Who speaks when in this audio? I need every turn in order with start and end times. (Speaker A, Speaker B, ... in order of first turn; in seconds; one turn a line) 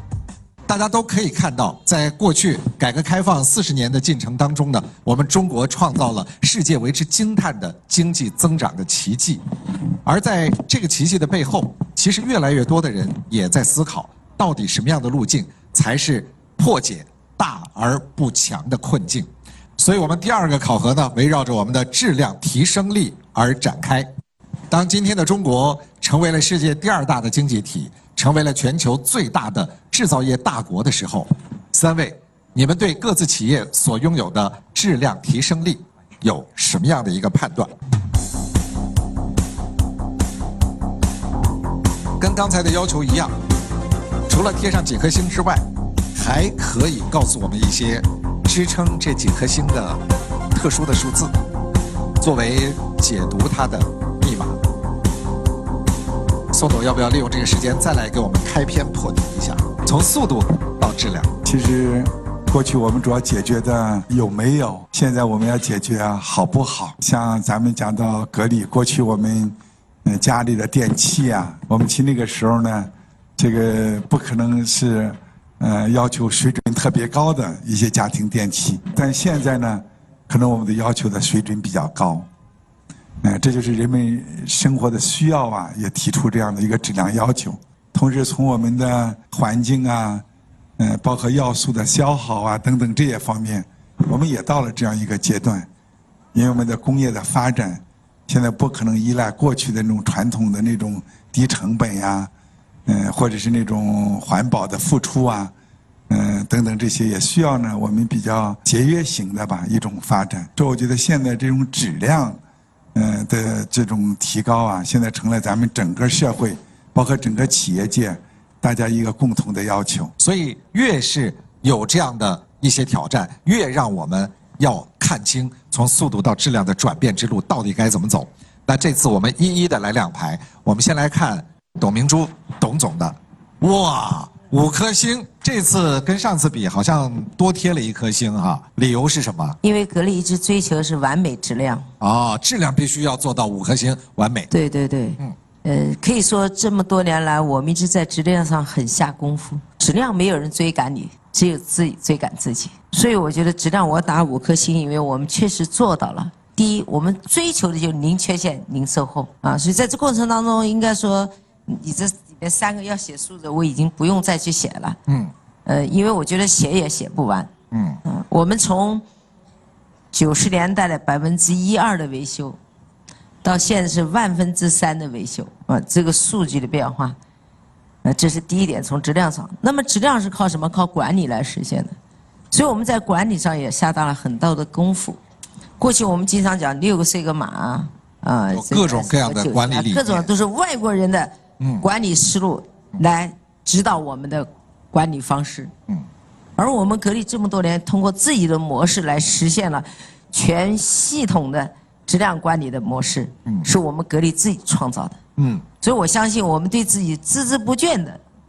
Speaker A: 0.7-9.4
Speaker A: 10.0-24.1
Speaker A: 24.7-37.8
Speaker A: 42.2-43.4
Speaker A: 44.3-50.0
Speaker A: 50.5-51.3
Speaker A: 52.2-54.6
Speaker A: 56.5-61.4
Speaker B: 61.5-82.3
Speaker B: 83.2-90.2
Speaker B: 90.8-95.7
Speaker B: 96.3-102.3
Speaker B: 102.9-105.5
Speaker B: 106.1-112.4
Speaker B: 113.0-120.1
Speaker A: 120.2-139.6
Speaker C: 139.6-141.9
Speaker A: 142.0-144.5
Speaker C: 144.5-165.0
Speaker A: 165.1-165.3
Speaker C: 165.7-167.5
Speaker A: 167.7-168.0
Speaker C: 168.1-169.0
Speaker C: 170.1-172.6
Speaker C: 173.4-177.2
Speaker C: 178.0-181.9
Speaker C: 182.5-185.2
Speaker C: 185.8-195.7
Speaker A: 188.5-190.3
Speaker C: 196.6-205.2
Speaker A: 205.4-205.7
Speaker C: 205.8-208.2